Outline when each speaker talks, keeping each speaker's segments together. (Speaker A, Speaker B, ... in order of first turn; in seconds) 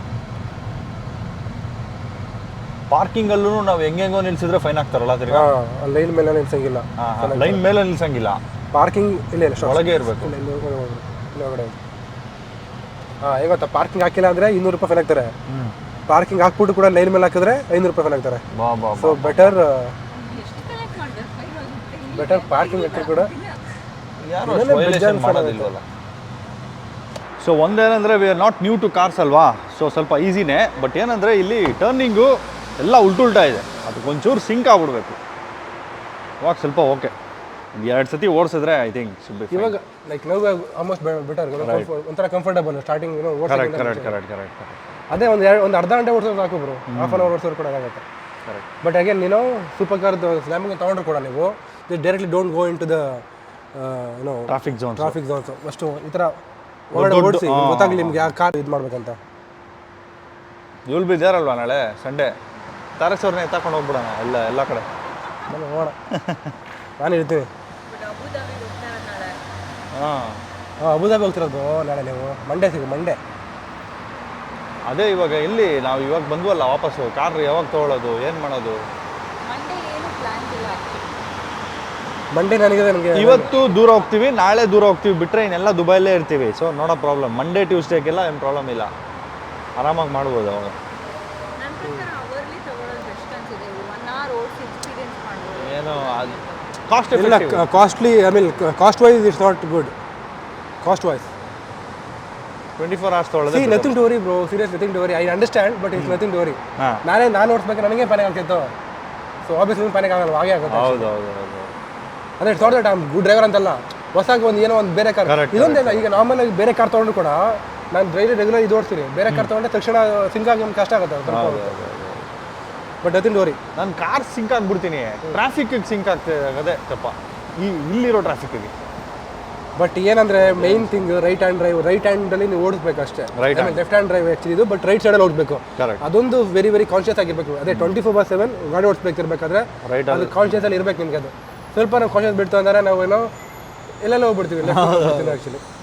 Speaker A: 2.9-5.5, 7.0-8.4, 9.6-10.3, 15.5-15.7, 18.5-19.6, 24.2-25.8, 27.4-35.2, 36.4-37.1, 37.7-39.8, 41.6-41.9, 43.5-45.0, 46.9-47.3, 54.5-55.1, 56.9-58.3, 60.9-62.4, 63.0-64.9, 66.1-66.5, 69.9-70.4, 74.9-78.8, 83.1-88.9, 89.8-90.8, 95.5-97.7, 102.8-104.0, 106.8-107.0, 110.7-111.7, 115.2-116.1, 121.2-122.3, 123.8-128.7, 130.4-131.1, 133.3-133.8, 135.8-136.0, 137.7-137.9, 139.8-140.5, 144.6-145.4
Speaker B: 5.3-7.7, 8.7-11.8, 13.2-15.3, 16.1-18.4, 18.9-19.9, 22.1-23.3, 24.4-25.7, 39.5-44.1, 45.1-48.0, 48.8-53.2, 53.7-56.4, 56.9-59.2, 65.5-66.0, 67.0-67.5, 70.8-73.2, 82.3-83.5, 91.8-92.1, 97.1-99.9, 100.8-101.3, 103.5-108.7, 109.5-111.1, 112.4-121.8, 123.0-123.6, 129.8-143.3, 144.0-145.6
Speaker C: 20.1-23.6, 67.8-69.4, 79.4-81.1, 91.6-96.8